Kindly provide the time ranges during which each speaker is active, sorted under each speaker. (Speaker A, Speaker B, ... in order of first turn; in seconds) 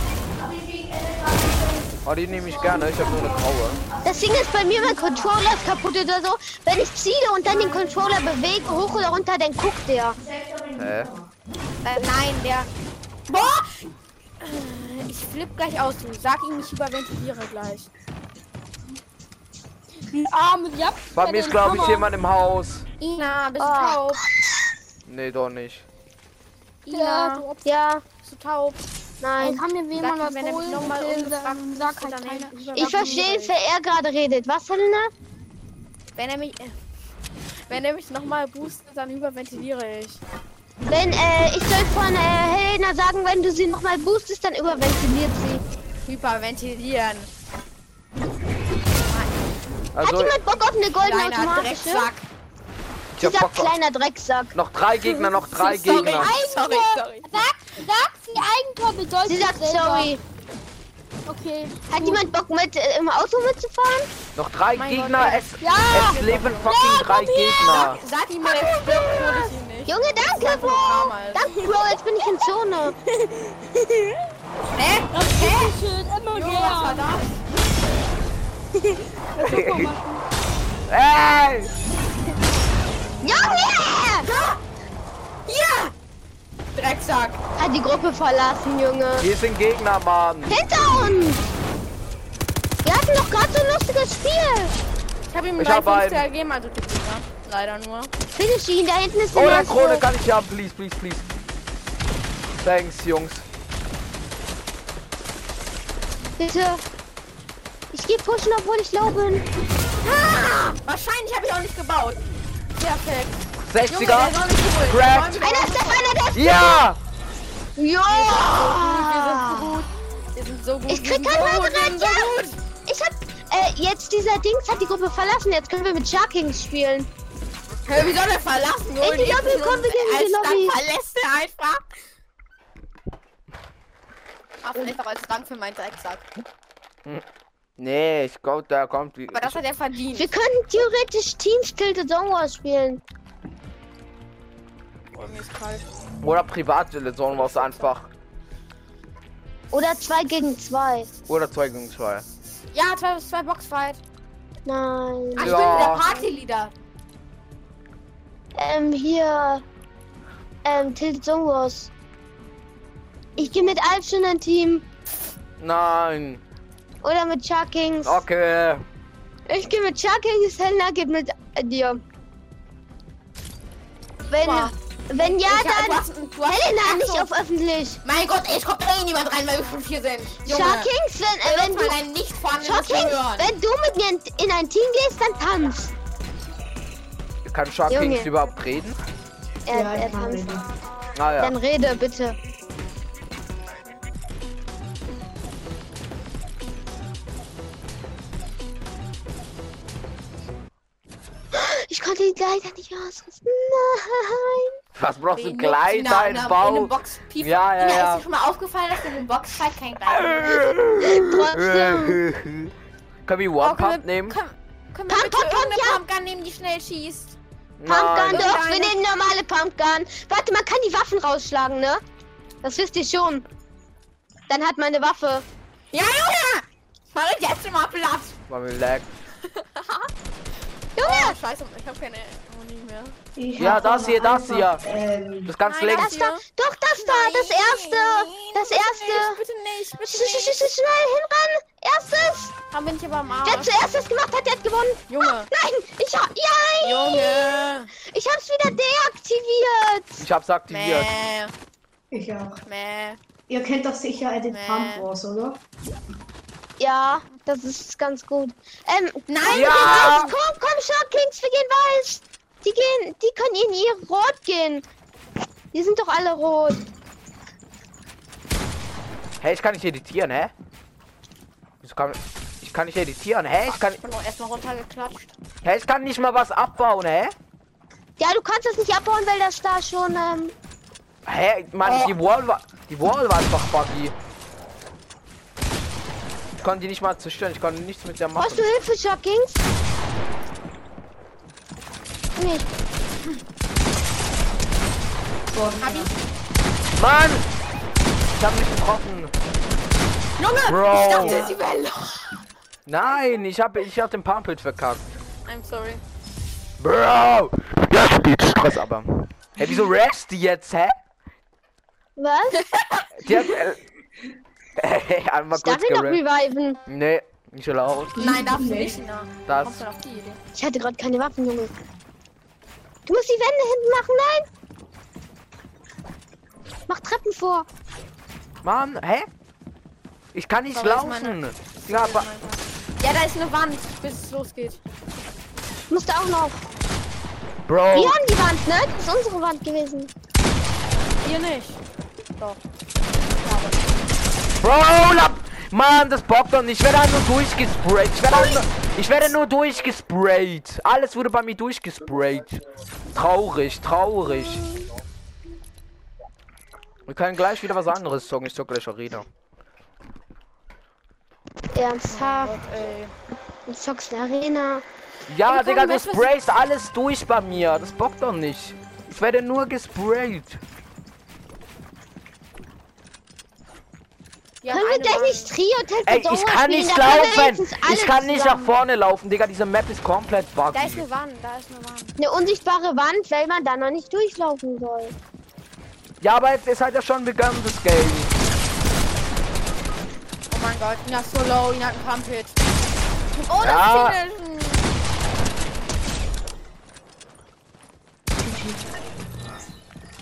Speaker A: 0.4-5.7, 7.5-9.0, 10.2-11.1, 20.1-22.1, 26.9-27.6, 29.4-33.3, 55.9-60.1, 61.3-62.2, 65.6-67.6, 73.2-74.2, 75.1-77.1, 78.8-80.2
Speaker B: 2.0-3.8, 10.8-11.1, 21.1-22.9, 25.1-25.9, 49.9-50.4, 53.2-53.7, 54.5-56.3, 64.3-68.0, 79.4-79.9, 80.9-81.7, 89.2-90.6, 95.6-96.2, 99.3-101.2, 102.6-103.5, 113.6-115.4, 116.3-117.0, 137.8-139.6, 146.2-148.1, 151.3-152.2, 155.4-156.0, 165.6-166.4, 168.1-168.8, 187.5-189.0, 191.2-191.6, 204.9-208.2, 210.1-212.7, 213.3-214.4, 217.8-218.6, 228.5-229.1, 233.6-234.8, 235.4-236.2, 250.2-251.1, 259.5-260.3, 269.4-270.5, 271.8-274.0, 275.6-277.3, 281.3-284.1, 286.6-288.7, 297.0-297.4, 298.4-299.3, 300.6-301.5, 302.9-305.0, 306.8-310.9, 313.2-313.8, 314.8-316.2, 316.9-318.4, 319.5-319.8, 328.6-329.3, 330.3-332.3, 337.6-338.2, 344.6-352.6, 353.1-354.8, 357.1-359.3, 365.3-370.6, 376.1-381.1, 386.2-388.3, 393.6-394.2
Speaker C: 4.0-10.2, 23.6-24.2, 27.6-28.0, 29.2-29.6, 32.8-35.1, 40.9-45.6, 50.0-52.1, 53.2-54.5, 59.3-60.2, 61.9-64.1, 69.9-73.0, 83.2-84.3, 87.6-89.3, 90.5-91.5, 92.8-94.7, 98.3-100.1, 106.4-106.8, 107.9-109.5, 115.3-116.8, 117.8-119.8, 120.9-127.1, 129.0-130.8, 140.2-143.0, 149.7-151.1, 154.7-156.3, 158.6-159.6, 160.7-161.9, 163.4-164.8, 167.0-168.2, 169.5-172.0, 174.3-178.0, 180.4-182.0, 182.6-185.9, 187.9-188.3, 189.7-190.5, 191.4-192.4, 201.5-204.8, 211.0-212.2, 215.1-216.0, 217.9-222.0, 222.6-223.4, 224.5-225.5, 231.0-231.4, 235.9-239.4, 240.1-242.5, 243.4-250.2, 256.8-264.9, 265.7-266.8, 278.2-280.6, 288.4-289.6, 292.4-292.7, 312.2-312.6, 315.5-316.8, 320.6-321.7, 323.1-324.5, 326.9-327.7, 335.9-336.6, 337.9-340.1, 348.3-348.6, 361.7-362.6, 363.7-364.9, 374.7-378.7, 382.2-385.1
Speaker D: 11.8-12.7, 13.3-13.8, 14.4-17.9, 23.0-24.2, 26.9-27.4, 28.2-28.8, 29.9-33.5, 36.2-36.8, 37.7-40.2, 46.1-47.3, 49.1-49.3, 51.0-52.2, 55.4-57.4, 64.8-71.6, 74.8-75.7, 76.3-77.4, 84.2-84.6, 85.5-85.9, 86.8-87.4, 95.3-98.1, 110.0-112.2, 112.8-116.2, 118.1-122.6, 127.9-131.8, 134.6-136.2, 139.3-140.3, 145.1-145.9, 147.3-148.0, 152.7-154.0, 155.4-156.7, 163.4-163.7, 174.4-177.3, 178.0-180.9, 181.4-183.5, 205.4-210.8, 213.6-217.4, 218.2-218.9, 225.9-228.4, 229.4-230.1, 231.0-233.2, 235.6-236.4, 236.9-240.6, 242.7-243.7, 245.1-245.5, 246.8-247.9, 250.7-251.5, 252.7-253.2, 254.5-255.1, 259.3-260.3, 273.7-275.3, 281.9-282.1, 295.8-296.1, 300.4-302.4, 305.5-306.0, 312.5-313.1, 318.2-320.4, 330.7-334.8, 341.2-341.8, 343.4-344.0, 362.1-363.1, 365.5-366.3, 374.6-375.5, 380.7-382.1, 390.5-392.5, 393.3-394.9
Speaker E: 189.7-190.7, 233.4-235.6, 252.1-252.6, 253.5-255.6, 295.5-296.1, 301.1-301.6, 318.2-319.0, 398.4-398.8